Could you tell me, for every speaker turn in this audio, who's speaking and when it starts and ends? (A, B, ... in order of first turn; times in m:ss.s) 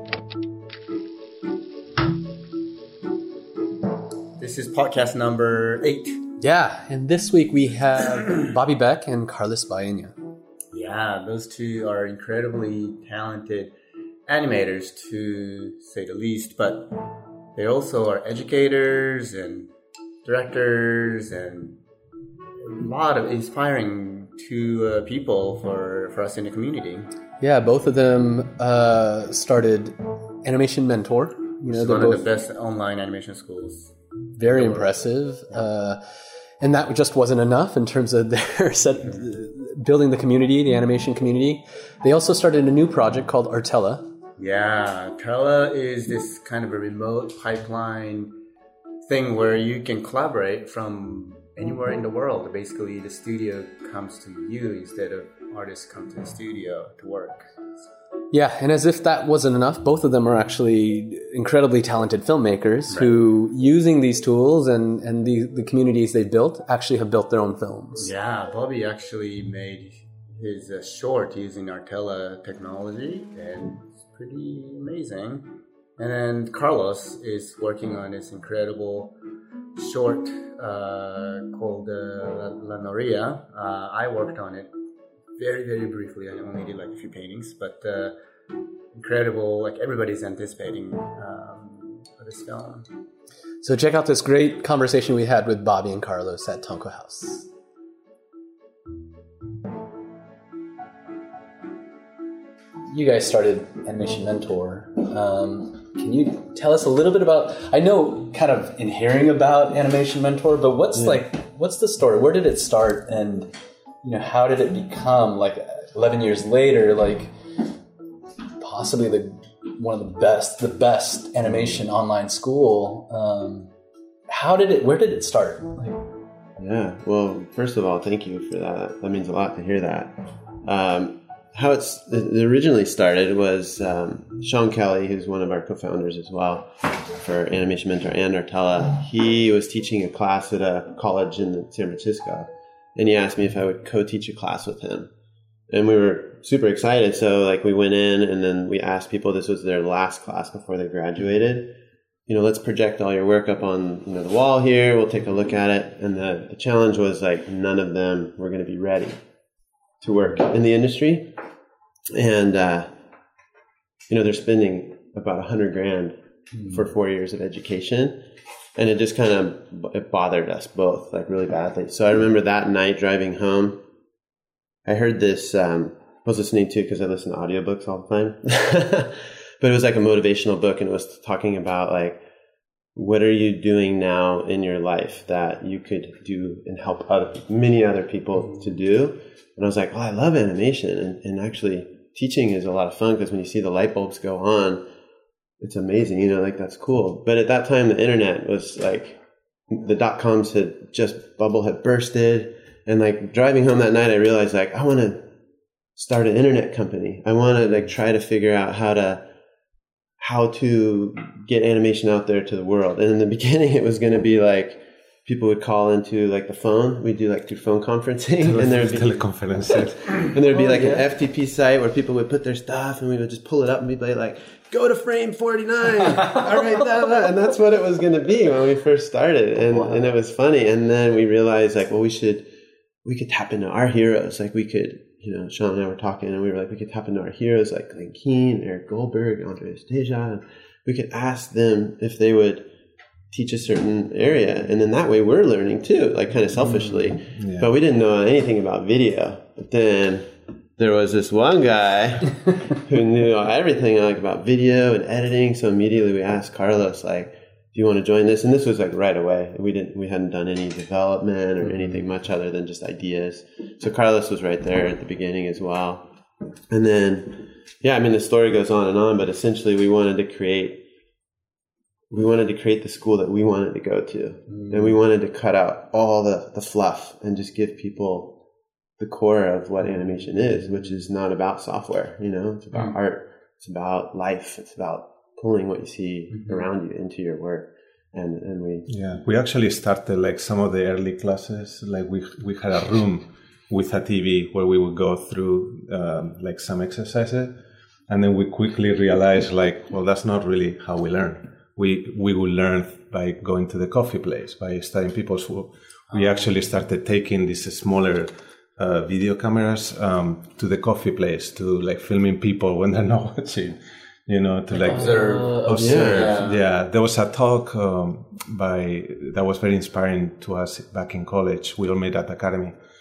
0:04.4-0:06.3 A
0:06.4-0:10.2 B
0:10.7-0:13.7 A
0:14.3-0:17.0 A
0:17.5-0:19.7 A
0:20.2-0:21.8 A
0:22.6-0:27.1 A
0:27.4-0:32.2 B
0:31.7-0:35.6 A
0:34.4-0:44.1 B
0:44.4-0:48.3 A
0:49.0-0:57.5 A
0:58.3-1:08.1 B
1:02.9-1:03.2 A
1:08.0-1:19.1 A
1:19.8-1:24.7 A
1:25.4-1:28.1 A
1:28.9-1:32.9 A
1:33.6-1:37.5 B
1:42.9-1:53.5 B
1:51.0-1:51.2 C
1:54.0-1:57.3 B
1:58.6-2:03.7 B
2:01.5-2:01.8 C
2:04.3-2:06.1 B
2:06.6-2:25.1 C
2:25.7-2:31.7 C
2:32.3-2:39.2 C
2:40.0-2:41.3 C
2:42.1-2:42.9 C
2:44.1-2:48.2 C
2:46.6-2:46.8 B
2:48.8-2:53.8 C
2:54.9-3:02.2 C
3:03.0-3:14.8 C
3:15.6-3:19.2 C
3:19.7-3:25.3 C
3:26.0-3:29.2 C
3:30.2-3:39.2 C
3:38.4-3:40.3 D
3:40.1-3:52.5 C
3:40.5-3:41.1 B
3:49.7-3:50.0 B
3:53.0-4:02.7 C
4:03.3-4:26.1 C
4:07.4-4:07.7 D
4:26.7-4:30.8 C
4:32.1-4:38.4 C
4:34.5-4:34.9 B
4:39.0-4:48.9 C
4:46.3-4:46.7 A
4:48.9-4:57.5 D
4:58.1-5:22.8 D
5:06.1-5:06.5 A
5:14.7-5:16.4 B
5:14.8-5:16.6 A
5:15.8-5:16.3 C